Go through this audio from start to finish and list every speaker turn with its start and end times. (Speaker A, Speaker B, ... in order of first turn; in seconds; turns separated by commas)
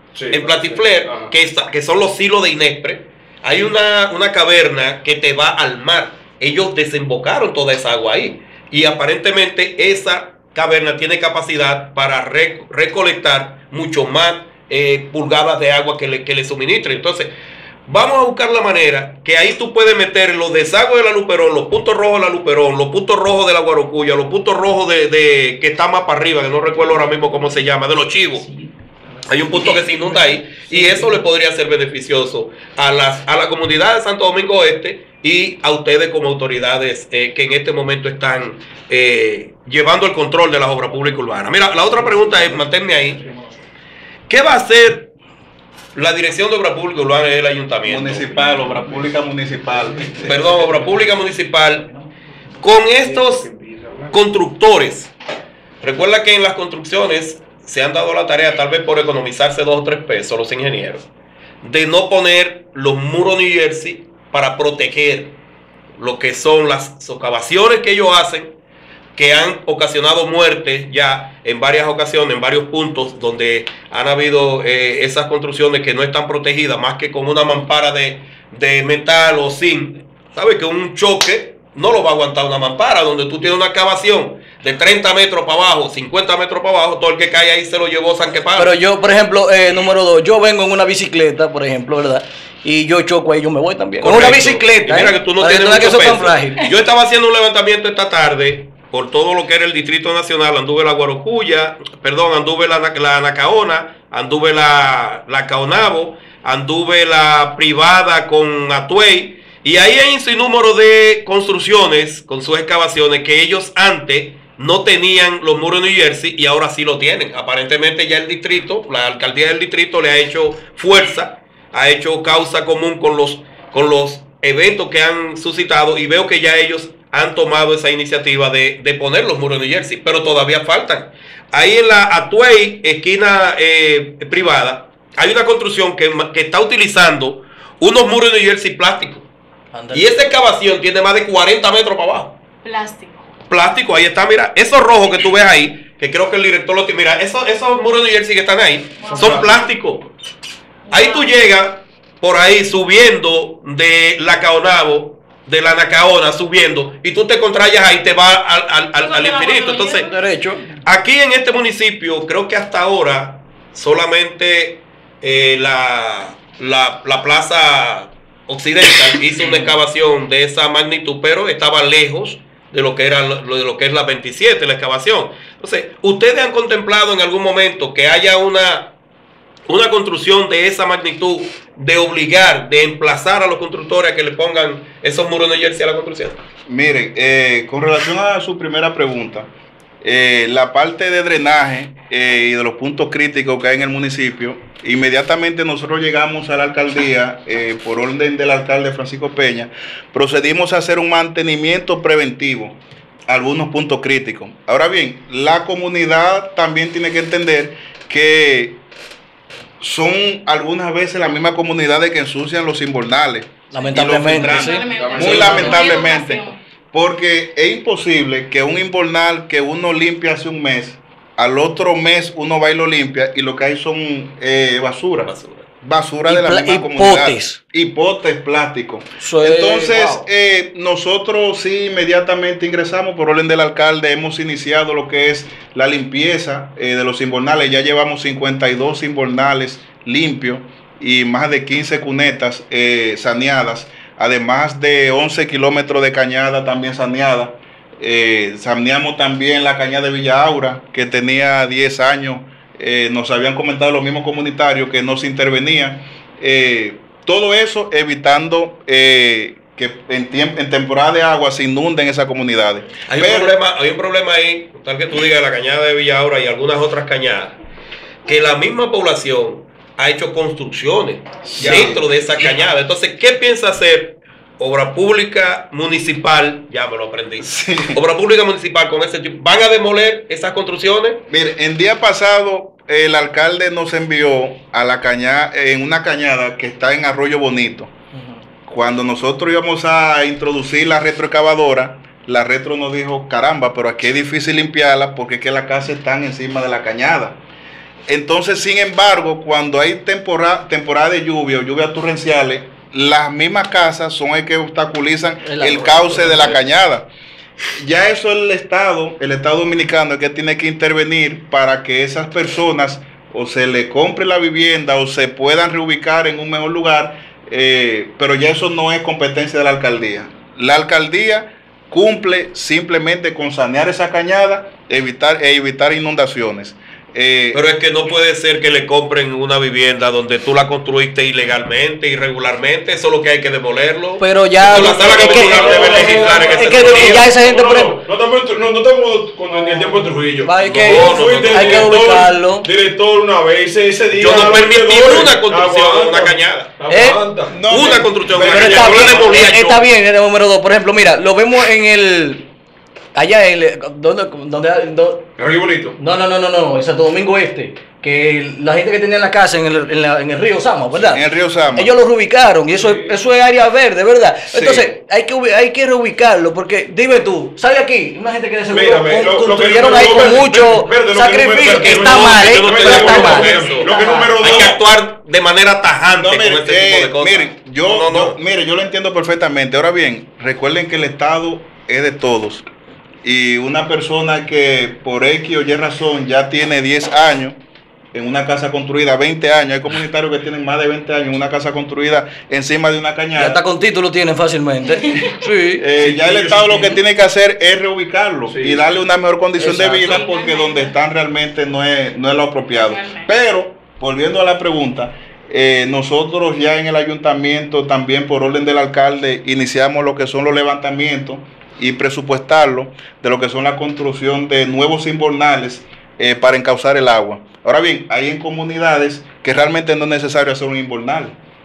Speaker A: 0.1-1.3, Speaker B: 0.3-17.3, Speaker B: 17.9-28.5, Speaker B: 29.2-43.2, Speaker A: 30.7-31.2, Speaker A: 42.2-42.6, Speaker B: 44.3-45.1, Speaker B: 45.9-48.3, Speaker C: 47.8-50.6, Speaker A: 48.2-48.8, Speaker B: 50.2-51.9, Speaker A: 50.5-50.8, Speaker B: 52.6-53.5, Speaker A: 52.9-54.2, Speaker B: 54.1-55.1, Speaker B: 55.8-61.0, Speaker B: 61.6-65.3, Speaker B: 66.0-68.5, Speaker B: 69.1-88.7, Speaker D: 88.6-96.6, Speaker B: 94.0-139.3, Speaker D: 139.7-140.3, Speaker B: 139.9-142.3, Speaker E: 142.6-143.3, Speaker B: 143.5-150.1, Speaker E: 149.0-149.7, Speaker A: 149.1-149.7, Speaker E: 150.9-151.3, Speaker B: 150.9-160.1, Speaker E: 159.0-160.1, Speaker D: 160.0-160.7, Speaker B: 160.8-178.9, Speaker B: 179.7-186.4, Speaker C: 186.7-189.5, Speaker C: 190.0-202.8, Speaker C: 203.3-208.8, Speaker C: 209.8-263.6, Speaker D: 213.7-215.8, Speaker E: 214.0-216.6, Speaker A: 214.8-215.8, Speaker B: 225.3-225.7, Speaker D: 226.2-227.6, Speaker D: 229.2-230.2, Speaker B: 263.1-267.6, Speaker B: 268.2-281.2, Speaker C: 271.6-272.0, Speaker C: 277.4-278.0, Speaker C: 281.3-287.9, Speaker C: 288.6-297.4, Speaker C: 298.1-307.1, Speaker D: 305.4-306.5, Speaker B: 306.3-306.6, Speaker C: 307.7-327.6, Speaker B: 327.5-337.3, Speaker D: 334.2-338.0, Speaker A: 334.7-347.7, Speaker D: 340.4-342.7, Speaker B: 340.6-342.0, Speaker B: 344.1-346.7, Speaker D: 346.9-347.2, Speaker C: 347.5-349.3, Speaker B: 347.6-349.9, Speaker D: 348.4-352.5, Speaker A: 348.5-349.3, Speaker D: 353.1-355.3, Speaker A: 355.4-356.0, Speaker D: 356.0-361.2, Speaker C: 361.1-361.9, Speaker D: 361.7-374.4, Speaker A: 362.8-363.1, Speaker C: 364.5-364.9, Speaker A: 368.7-374.8, Speaker B: 371.7-378.4, Speaker C: 376.2-382.6, Speaker C: 383.2-387.6, Speaker C: 388.1-393.6, Speaker D: 393.3-395.9, Speaker E: 395.0-395.5, Speaker C: 395.8-421.4, Speaker A: 396.0-396.9, Speaker A: 398.5-398.9, Speaker D: 399.6-400.2, Speaker E: 400.0-400.9, Speaker E: 402.8-403.3